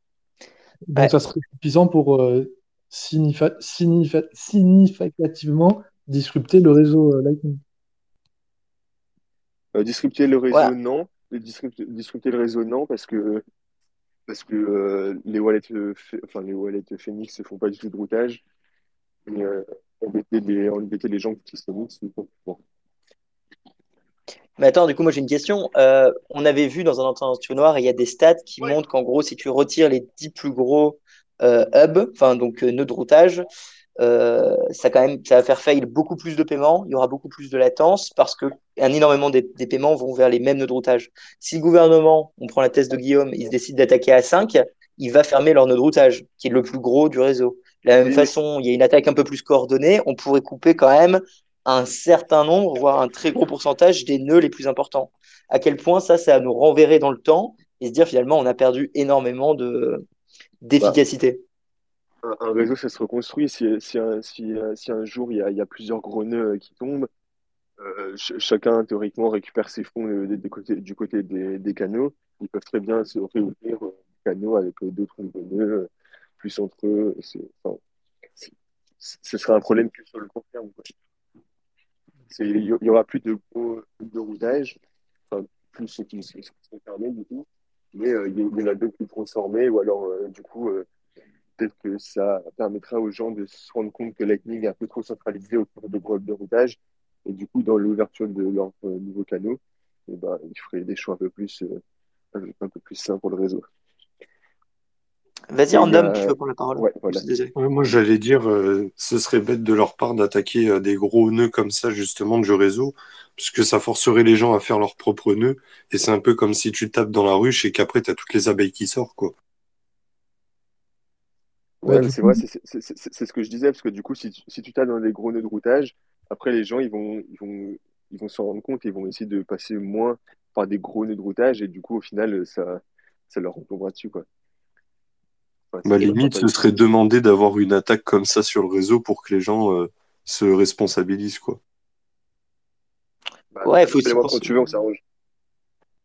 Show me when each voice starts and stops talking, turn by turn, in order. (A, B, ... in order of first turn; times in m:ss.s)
0:00.9-0:07.6 A
0:09.7-0:13.4 B
0:14.3-0:18.4 B
0:19.3-0:22.6 B
0:24.6-0:33.5 C
0:34.0-1:00.0 C
0:48.0-0:48.4 B
1:00.6-1:01.4 C
1:02.2-1:07.1 B
1:07.8-1:15.9 B
1:16.4-1:17.8 B
1:18.4-1:20.9 B
1:22.3-1:24.8 B
1:25.3-1:30.9 B
1:31.6-1:41.8 B
1:42.3-1:43.7 B
1:45.5-1:47.5 C
1:45.7-1:47.2 B
1:47.6-1:59.4 D
2:01.8-2:14.2 B
2:01.9-2:02.4 A
2:15.7-2:16.6 B
2:15.8-2:21.6 D
2:23.5-2:25.0 B
2:23.6-2:24.5 C